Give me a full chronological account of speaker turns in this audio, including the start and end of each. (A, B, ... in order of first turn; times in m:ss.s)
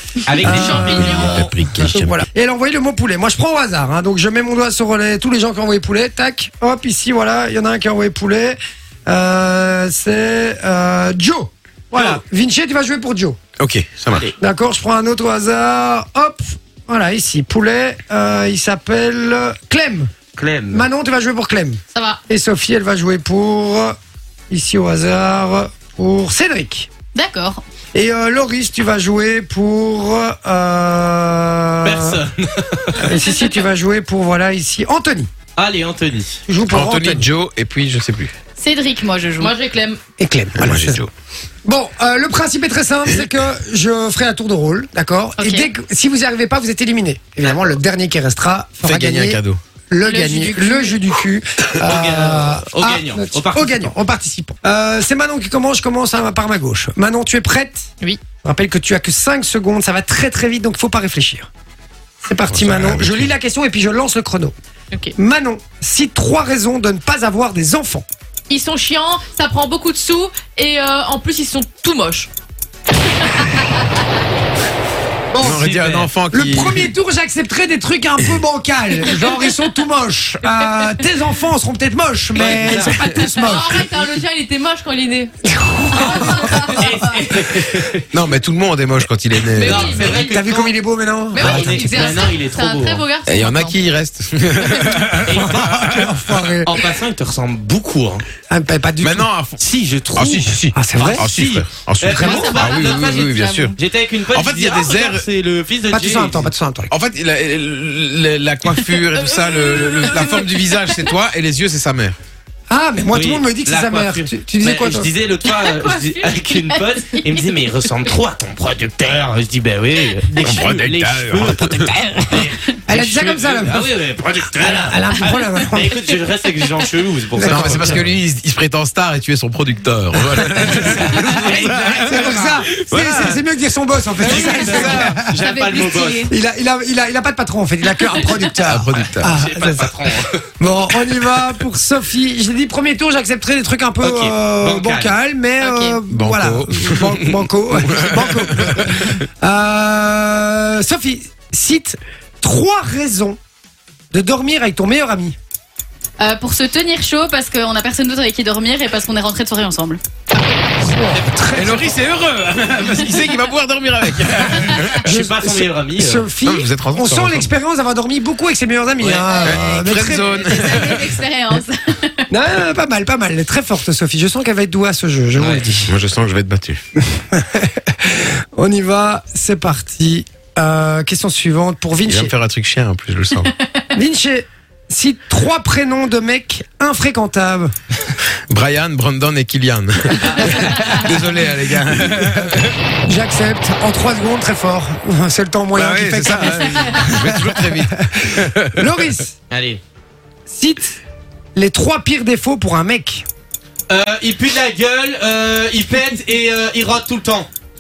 0:00.3-0:01.5 A
0:00.4-0:13.4 B
0:00.4-0:02.2 C
0:00.5-0:01.5 D
0:13.6-0:14.3 C
0:14.4-0:20.1 B
0:20.4-0:20.9 A
0:20.7-0:24.0 B
0:21.9-0:22.2 D
0:24.5-0:26.9 B
0:27.1-0:27.6 E
0:27.9-0:32.2 B
0:31.8-0:33.2 A
0:33.0-0:35.3 B
0:35.6-0:36.4 A
0:36.5-0:37.3 B
0:36.7-0:38.3 C
0:38.6-0:39.5 E
0:39.4-0:40.0 D
0:40.2-0:41.0 B
0:40.6-0:41.1 C
0:41.6-0:57.9 B
0:45.4-0:45.7 E
0:48.8-0:49.6 C
0:50.0-0:51.0 E
0:51.8-0:53.9 A
0:58.4-1:01.5 B
1:02.2-1:04.6 B
1:02.5-1:03.3 C
1:05.2-1:08.1 B
1:08.5-1:12.3 D
1:13.3-1:13.8 D
1:15.3-1:15.7 B
1:15.4-1:16.9 C
1:15.4-1:16.1 A
1:16.3-1:24.0 B
1:22.4-1:23.0 A
1:22.7-1:23.1 C
1:23.2-1:25.3 D
1:25.4-1:26.8 B
1:26.0-1:26.8 E
1:26.0-1:26.9 D
1:26.7-1:28.0 A
1:28.1-1:30.0 C
1:29.5-1:30.4 D
1:29.6-1:30.8 A
1:29.9-1:32.3 B
1:31.3-1:33.8 D
1:31.4-1:33.0 A
1:33.2-1:36.2 C
1:35.2-1:35.9 A
1:35.3-1:37.0 B
1:36.6-1:38.2 A
1:38.5-1:39.3 B
1:39.0-1:39.6 C
1:39.6-1:46.5 A
1:40.1-1:43.8 C
1:40.7-1:41.3 B
1:42.1-1:42.7 B
1:42.4-1:43.7 D
1:44.3-1:45.3 C
1:45.9-1:46.9 B
1:46.9-1:52.2 C
1:48.9-1:51.1 D
1:52.7-1:55.1 B
1:53.1-2:08.1 A
1:55.5-1:56.3 D
2:00.4-2:02.0 C
2:02.9-2:03.9 B
2:04.6-2:06.0 B
2:07.3-2:08.1 B
2:07.4-2:13.5 C
2:10.6-2:12.7 A
2:12.0-2:15.5 B
2:14.2-2:15.2 C
2:14.2-2:16.3 A
2:15.4-2:16.3 D
2:16.1-2:20.0 B
2:18.1-2:18.4 D
2:18.6-2:19.4 C
2:19.0-2:20.4 A
2:20.6-2:33.4 B
2:24.0-2:25.2 A
2:25.6-2:26.0 E
2:26.1-2:29.1 C
2:34.1-2:35.4 B
2:36.2-2:40.0 E
2:40.8-2:41.8 B
2:41.1-2:41.9 A
2:41.5-2:45.0 C
2:44.6-2:46.4 A
2:45.0-2:50.8 B
2:46.4-2:47.5 C
2:49.0-2:49.4 A
2:49.3-2:51.1 C
2:50.0-2:52.3 E
2:52.3-2:55.9 B
2:55.4-2:55.8 A
2:55.9-2:56.8 C
2:57.1-3:02.3 B
3:02.0-3:03.5 C
3:03.4-3:03.9 E
3:03.9-3:07.7 B
3:08.5-3:12.8 C
3:10.3-3:11.2 B
3:12.1-3:19.3 B
3:15.8-3:19.2 C
3:19.5-3:19.8 A
3:20.5-3:21.0 B
3:21.6-3:23.3 B
3:23.9-3:27.5 A